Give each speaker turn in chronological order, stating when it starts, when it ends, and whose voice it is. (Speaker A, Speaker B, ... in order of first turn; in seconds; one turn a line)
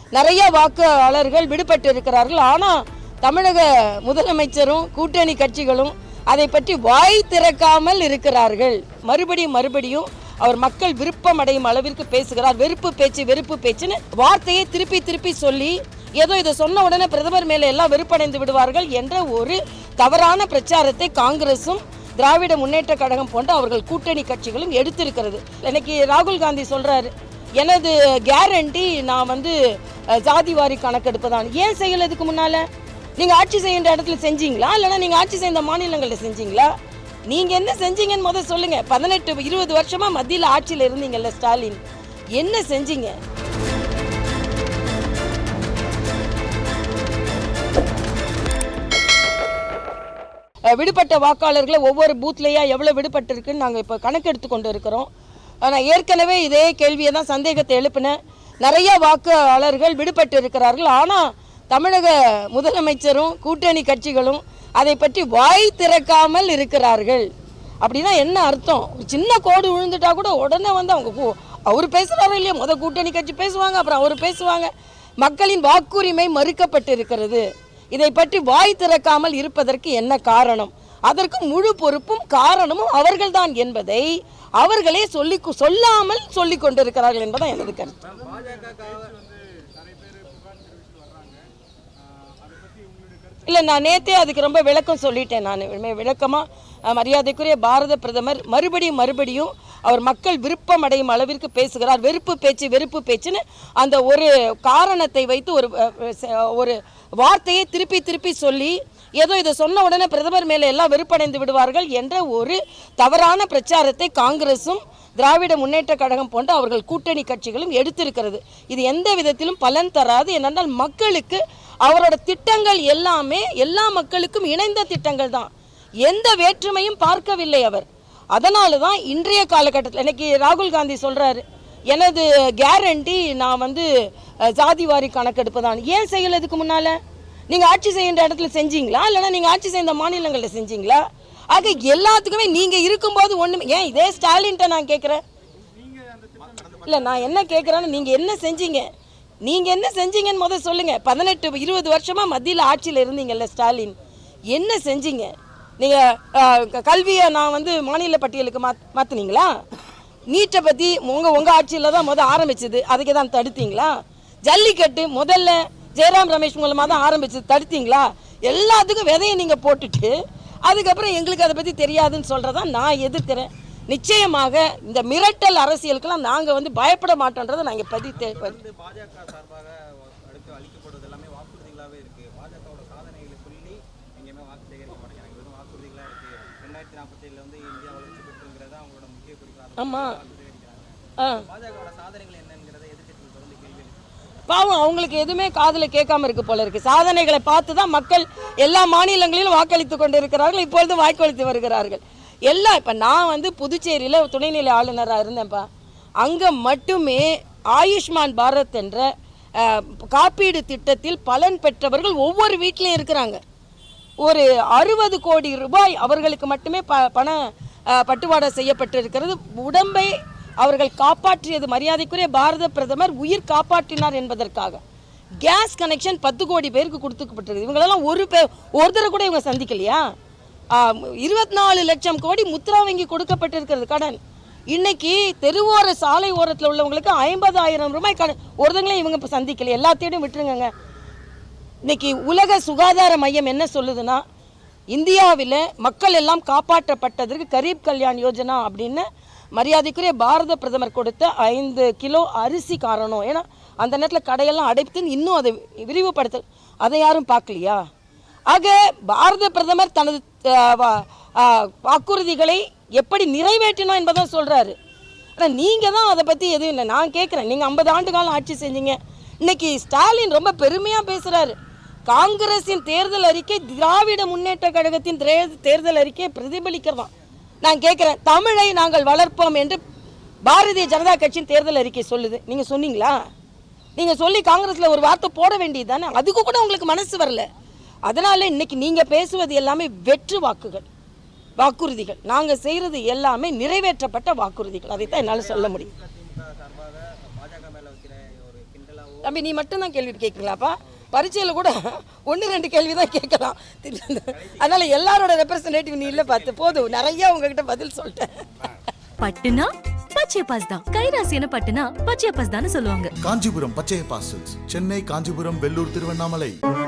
Speaker A: 0.1-32.6
Speaker A: 33.2-36.7
Speaker A: 37.3-41.8
Speaker A: 42.4-43.1
Speaker A: 50.7-55.1
Speaker A: 55.6-67.3
Speaker A: 67.8-88.0
Speaker B: 88.0-89.2
Speaker A: 93.5-125.5
Speaker A: 126.0-137.0
Speaker A: 137.5-145.2
Speaker B: 146.4-148.3
Speaker A: 146.8-148.9
Speaker A: 149.4-153.9
Speaker A: 154.5-159.6
Speaker A: 160.3-178.6
Speaker B: 178.1-194.0
Speaker A: 189.8-190.2
Speaker A: 194.5-205.7
Speaker A: 206.2-213.4
Speaker A: 214.2-224.8
Speaker A: 225.4-230.0
Speaker A: 230.7-234.2
Speaker A: 234.7-240.7
Speaker A: 241.8-244.2
Speaker A: 244.9-257.9
Speaker A: 258.5-264.8
Speaker A: 265.4-271.6
Speaker A: 272.1-277.1
Speaker A: 277.6-279.8
Speaker A: 280.5-283.2
Speaker A: 284.0-287.5
Speaker A: 288.1-290.9
Speaker A: 291.6-295.9
Speaker B: 294.9-299.4
Speaker A: 299.2-308.3
Speaker B: 304.3-305.2
Speaker B: 306.0-307.2
Speaker C: 309.2-313.1
Speaker D: 313.2-316.6